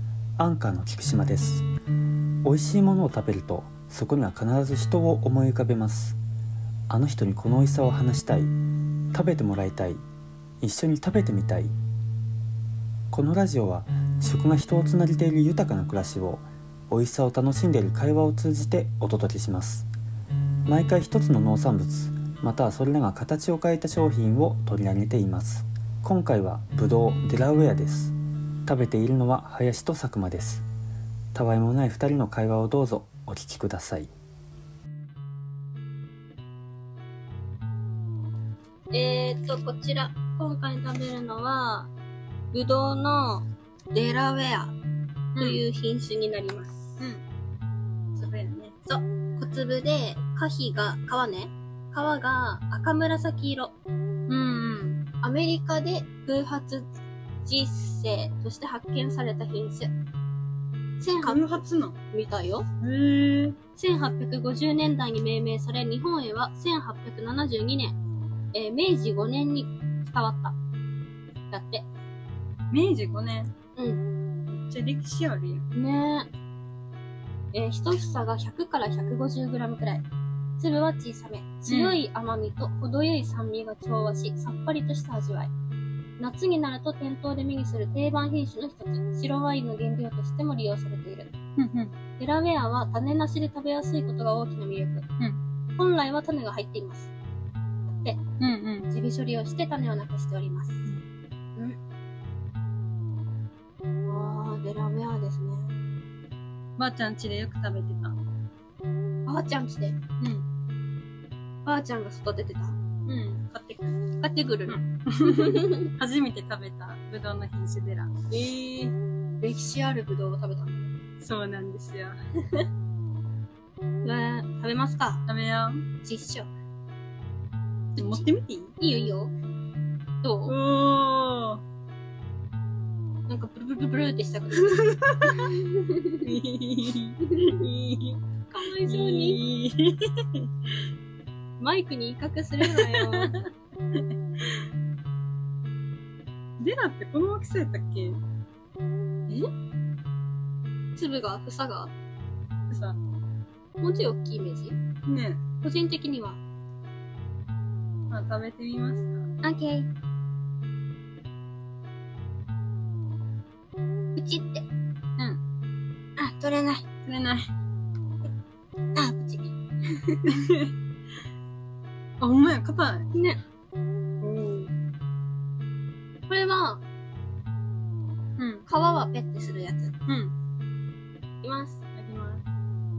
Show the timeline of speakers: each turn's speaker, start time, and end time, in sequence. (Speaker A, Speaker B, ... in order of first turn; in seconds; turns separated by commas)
Speaker A: 0.4-1.6, Speaker A: 2.4-6.2, Speaker A: 6.9-8.5, Speaker A: 9.1-10.0, Speaker A: 10.6-11.7, Speaker A: 13.1-19.9, Speaker A: 20.7-28.1, Speaker A: 28.6-30.6, Speaker A: 31.3-34.1, Speaker B: 38.9-41.9, Speaker B: 42.5-44.7, Speaker C: 45.4-45.6, Speaker B: 45.4-47.0, Speaker C: 48.1-48.8, Speaker B: 48.9-53.7, Speaker C: 54.3-55.0, Speaker B: 55.2-56.9, Speaker B: 57.4-59.9, Speaker B: 61.0-62.6, Speaker C: 61.2-62.0, Speaker C: 62.8-63.6, Speaker B: 63.8-67.9, Speaker B: 68.5-70.5, Speaker B: 71.5-71.8, Speaker C: 72.7-73.5, Speaker B: 73.8-74.0, Speaker C: 74.5-75.6, Speaker B: 75.7-76.3, Speaker B: 77.5-80.0, Speaker B: 80.6-85.5, Speaker C: 81.7-82.0, Speaker B: 86.2-91.3, Speaker C: 91.6-91.9, Speaker B: 92.2-95.0, Speaker B: 95.8-97.1, Speaker B: 97.8-98.2, Speaker C: 98.4-98.9, Speaker B: 98.9-100.8, Speaker B: 104.1-105.8, Speaker C: 106.8-108.2, Speaker B: 109.2-110.0, Speaker B: 111.6-112.8, Speaker C: 113.0-114.0, Speaker B: 114.2-115.8, Speaker C: 114.7-118.1, Speaker B: 118.3-120.9, Speaker C: 121.2-122.2, Speaker B: 124.0-125.2, Speaker C: 125.3-125.8, Speaker B: 126.0-126.5, Speaker C: 128.0-128.7, Speaker B: 128.0-128.2, Speaker B: 128.8-129.3, Speaker B: 130.2-130.5, Speaker C: 130.5-131.6, Speaker B: 133.3-136.2, Speaker C: 134.9-135.5, Speaker C: 136.2-137.8, Speaker B: 137.4-139.4, Speaker C: 138.8-140.5, Speaker B: 141.6-143.3, Speaker C: 142.7-144.6, Speaker C: 146.6-148.2, Speaker B: 150.9-151.9, Speaker C: 152.7-153.0, Speaker B: 153.8-154.8, Speaker C: 155.1-155.4, Speaker B: 155.6-156.4, Speaker C: 158.1-159.3, Speaker B: 159.4-159.9, Speaker B: 164.1-164.7, Speaker B: 166.2-166.8, Speaker C: 167.1-167.5, Speaker B: 168.9-170.3, Speaker C: 170.3-170.7, Speaker C: 172.2-173.1, Speaker B: 173.1-173.4, Speaker C: 174.2-174.7, Speaker B: 176.3-176.8, Speaker C: 178.4-178.7, Speaker B: 178.7-179.9, Speaker C: 180.1-180.3, Speaker B: 181.4-181.8, Speaker C: 181.9-182.4